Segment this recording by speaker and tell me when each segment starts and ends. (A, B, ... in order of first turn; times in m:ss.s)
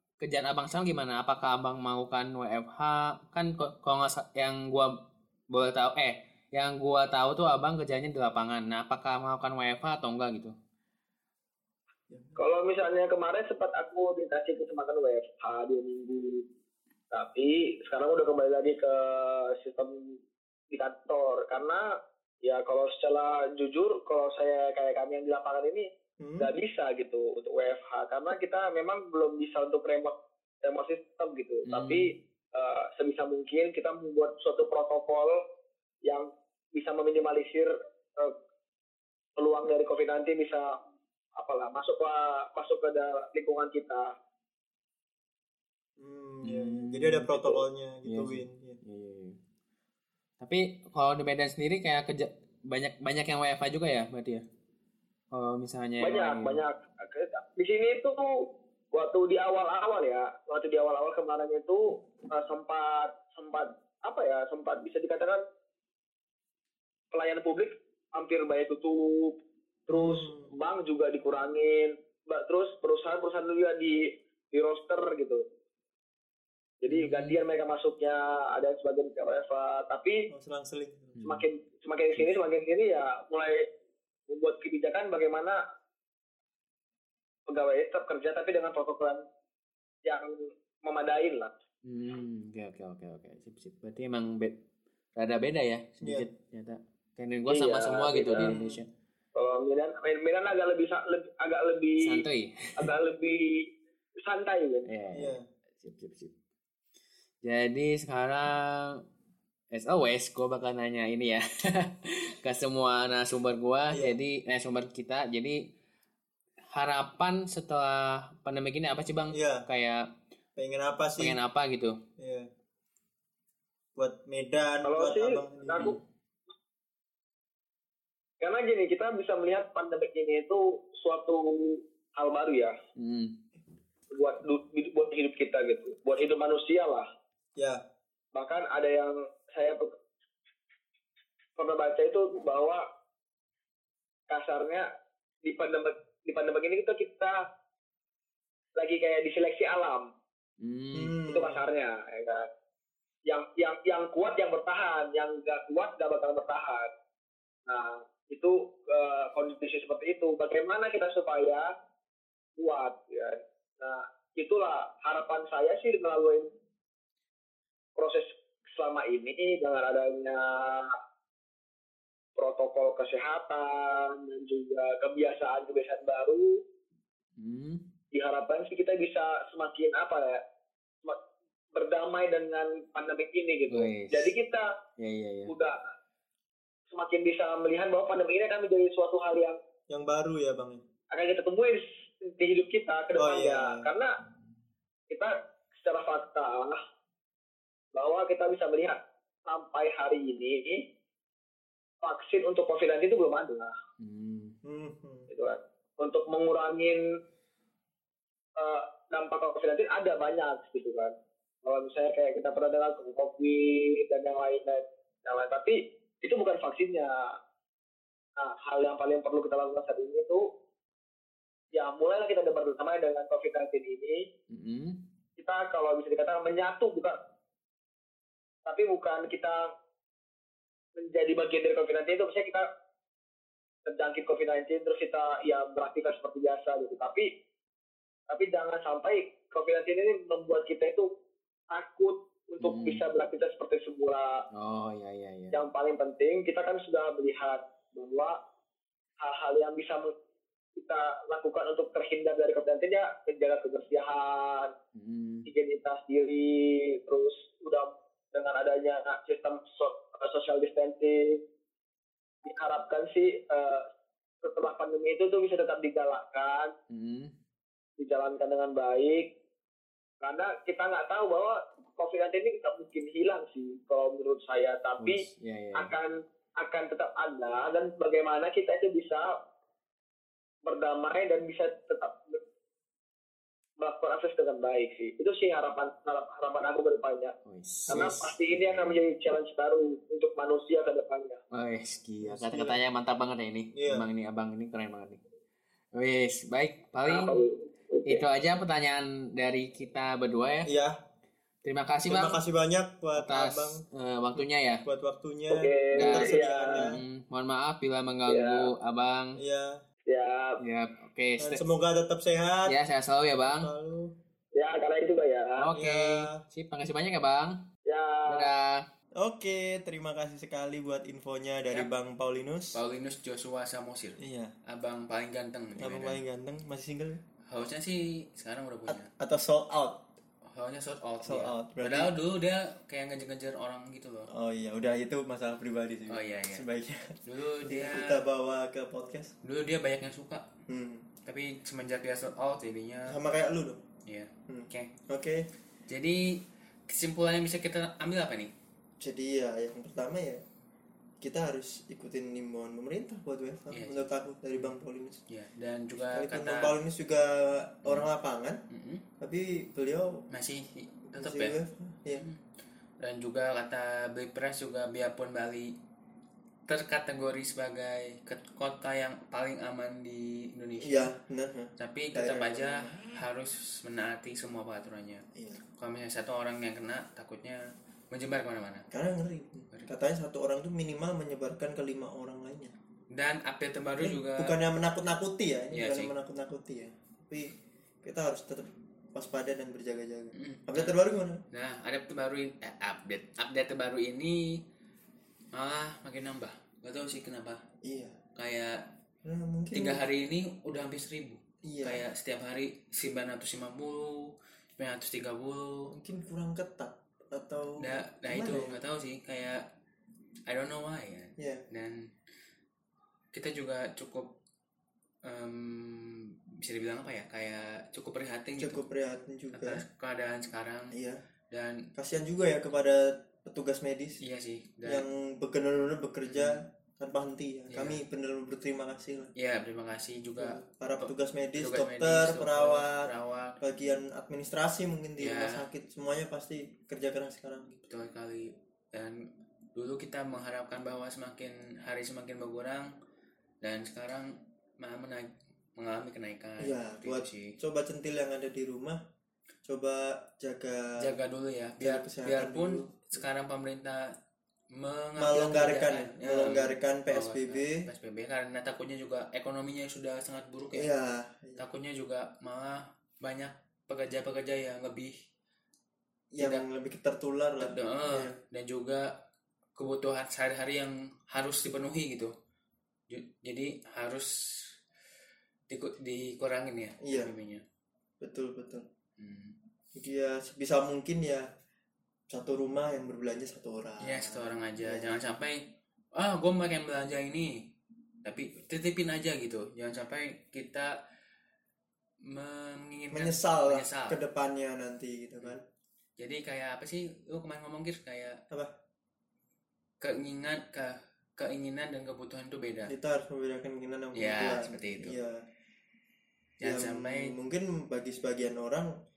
0:00.2-0:05.0 A
0:05.5-0:10.5 A
0:12.1-0:12.4 B
0:12.4-0:16.4 C
0:17.1-0:20.2 C
0:20.7-0:21.9 C
0:22.4-0:25.9 C
0:26.2-0:26.5 B
0:26.4-0:35.4 C
0:31.7-0:32.1 A
0:36.0-0:38.3 C
0:39.4-0:40.8 C
0:41.4-0:44.1 C
0:46.0-0:48.8 B
0:46.4-0:47.3 A
0:48.0-0:49.4 A
0:50.4-0:54.4 A
0:55.3-0:56.6 A
0:56.0-1:05.4 C
1:07.1-1:09.4 C
1:09.9-1:15.4 C
1:09.9-1:10.5 B
1:16.8-1:20.3 C
1:16.9-1:17.4 A
1:20.3-1:21.2 B
1:21.2-1:21.5 A
1:21.2-1:23.7 C
1:24.3-1:25.6 C
1:27.5-1:29.2 C
1:30.0-1:31.5 C
1:31.9-1:34.6 A
1:35.2-1:38.9 A
1:36.0-1:36.3 B
1:37.5-1:38.6 C
1:38.4-1:38.8 B
1:39.4-1:42.3 C
1:42.0-1:42.9 A
1:42.8-1:43.7 C
1:44.2-1:44.9 C
1:44.9-1:46.3 A
1:45.1-1:45.4 B
1:47.4-1:49.0 A
1:49.7-1:55.6 A
1:53.9-1:54.2 B
1:56.7-2:00.1 A
1:59.3-1:59.6 B
2:00.6-2:01.4 B
2:01.2-2:02.0 A
2:02.2-2:02.5 B
2:04.0-2:06.0 B
2:04.8-2:06.0 C
2:08.4-2:12.7 C
2:13.0-2:13.3 A
2:14.1-2:17.1 C
2:17.6-2:17.8 B
2:18.4-2:19.9 C
2:21.6-2:22.8 C
2:24.3-2:24.9 C
2:25.4-2:27.4 C
2:28.8-2:30.1 C
2:30.6-2:31.2 A
2:30.9-2:31.7 B
2:31.3-2:32.5 C
2:33.3-2:36.9 C
2:37.7-2:41.7 C
2:42.6-2:46.5 C
2:48.0-2:50.9 C
2:52.4-2:56.6 C
2:57.4-2:57.8 A
2:58.1-3:00.4 C
3:01.7-3:04.7 C
3:03.7-3:04.3 A
3:05.0-3:05.5 A
3:05.5-3:05.8 C
3:06.9-3:09.6 C
3:09.9-3:10.8 B
3:11.1-3:14.2 C
3:13.2-3:13.9 B
3:15.1-3:16.8 C
3:17.9-3:20.9 C
3:22.0-3:23.7 C
3:24.0-3:24.6 A
3:24.6-3:25.3 B
3:25.3-3:27.1 C
3:28.6-3:37.4 C
3:38.4-3:40.5 C
3:41.7-3:44.3 C
3:44.5-3:45.0 A
3:45.4-3:47.2 C
3:48.7-3:49.7 C
3:51.0-3:52.7 C
3:53.9-3:57.3 C
3:58.3-4:01.1 C
4:01.7-4:04.4 C
4:02.6-4:03.0 A
4:04.6-4:05.6 A
4:05.5-4:08.4 C
4:09.2-4:10.1 C
4:10.8-4:14.7 C
4:15.0-4:15.5 A
4:15.5-4:21.4 C
4:22.4-4:23.9 C
4:24.4-4:26.7 C
4:26.9-4:27.3 A
4:28.0-4:29.3 C
4:30.2-4:35.2 C
4:35.0-4:35.9 A
4:35.8-4:39.4 C
4:40.7-4:42.4 C
4:43.8-4:47.4 C
4:47.5-4:49.0 A
4:47.9-4:51.4 C
4:51.5-4:55.2 A
4:52.2-4:52.8 B
4:53.7-4:54.1 B
4:55.9-4:57.4 A
4:57.0-4:58.2 C
4:58.1-5:00.7 A
5:00.6-5:01.0 B
5:01.6-5:02.4 A
5:02.1-5:03.8 B
5:03.2-5:04.8 A
5:04.4-5:07.0 B
5:05.5-5:06.9 C
5:05.9-5:09.4 A
5:08.3-5:08.7 C
5:09.4-5:09.8 B
5:10.1-5:10.6 C
5:10.6-5:11.6 A
5:11.4-5:12.8 B
5:12.7-5:13.7 A
5:13.4-5:14.2 B
5:14.6-5:15.8 C
5:15.6-5:17.6 A
5:15.8-5:16.4 B
5:17.9-5:18.5 C
5:18.3-5:18.8 A
5:19.2-5:22.8 B
5:22.7-5:26.2 D
5:24.2-5:24.5 B
5:25.8-5:27.2 B
5:27.5-5:29.1 D
5:28.9-5:30.1 B
5:30.4-5:34.3 D
5:31.2-5:32.1 B
5:34.3-5:39.3 B
5:36.1-5:36.6 D
5:37.2-5:38.2 D
5:39.4-5:40.5 D
5:40.7-5:41.1 B
5:41.2-5:43.2 D
5:43.1-5:43.8 B
5:44.1-5:44.9 D
5:44.5-5:45.5 B
5:45.9-5:48.5 D
5:49.0-5:50.4 B
5:51.2-5:55.2 B
5:53.7-5:54.1 D
5:55.3-5:56.8 D
5:56.1-5:58.6 B
5:58.7-5:59.0 D
5:59.2-6:00.2 B
6:00.3-6:01.6 D
6:01.1-6:02.3 B
6:02.1-6:02.4 D
6:03.0-6:05.8 D
6:06.7-6:11.1 D
6:10.8-6:13.2 B
6:11.8-6:18.9 D
6:15.4-6:15.6 B
6:18.9-6:22.7 B
6:23.1-6:24.6 D
6:24.0-6:31.4 B
6:25.7-6:26.1 D
6:30.4-6:31.0 D
6:31.5-6:34.6 D
6:35.5-6:37.6 D
6:37.8-6:38.2 B
6:38.4-6:38.8 D
6:39.2-6:40.0 B
6:39.7-6:45.9 D
6:41.6-6:42.0 B
6:45.9-6:48.8 B
6:47.8-6:49.7 D
6:50.5-6:52.1 D
6:51.4-6:51.6 B
6:53.3-6:54.4 D
6:55.2-6:58.8 D
6:58.6-6:59.8 B
6:59.5-7:01.0 D
7:00.9-7:01.2 B
7:01.5-7:01.9 D
7:02.0-7:04.2 B
7:04.2-7:05.0 D
7:04.8-7:09.3 B
7:06.3-7:06.6 D
7:07.7-7:08.0 D
7:09.4-7:13.6 D
7:10.4-7:17.8 B
7:15.2-7:15.6 D
7:17.8-7:22.9 D
7:23.6-7:27.6 D
7:26.6-7:29.0 B
7:29.6-7:31.1 B
7:31.0-7:34.2 D
7:31.8-7:33.2 B
7:34.7-7:40.9 D
7:35.2-7:37.8 B
7:40.7-7:41.6 B
7:41.6-7:45.2 D
7:46.3-7:48.4 B
7:46.4-7:46.7 D
7:47.6-7:49.2 D
7:49.8-7:52.3 D
7:53.1-7:54.8 D
7:55.7-7:57.6 D
7:57.0-7:57.3 B
7:58.2-7:58.9 B
7:59.2-7:59.6 D
8:00.0-8:01.5 B
8:02.3-8:05.2 B
8:04.0-8:07.7 D
8:08.2-8:11.0 D
8:12.2-8:14.2 D
8:13.1-8:15.6 B
8:16.2-8:18.4 D
8:20.0-8:22.9 D
8:22.9-8:25.4 B
8:24.2-8:25.2 D
8:26.6-8:27.4 D
8:26.6-8:28.9 B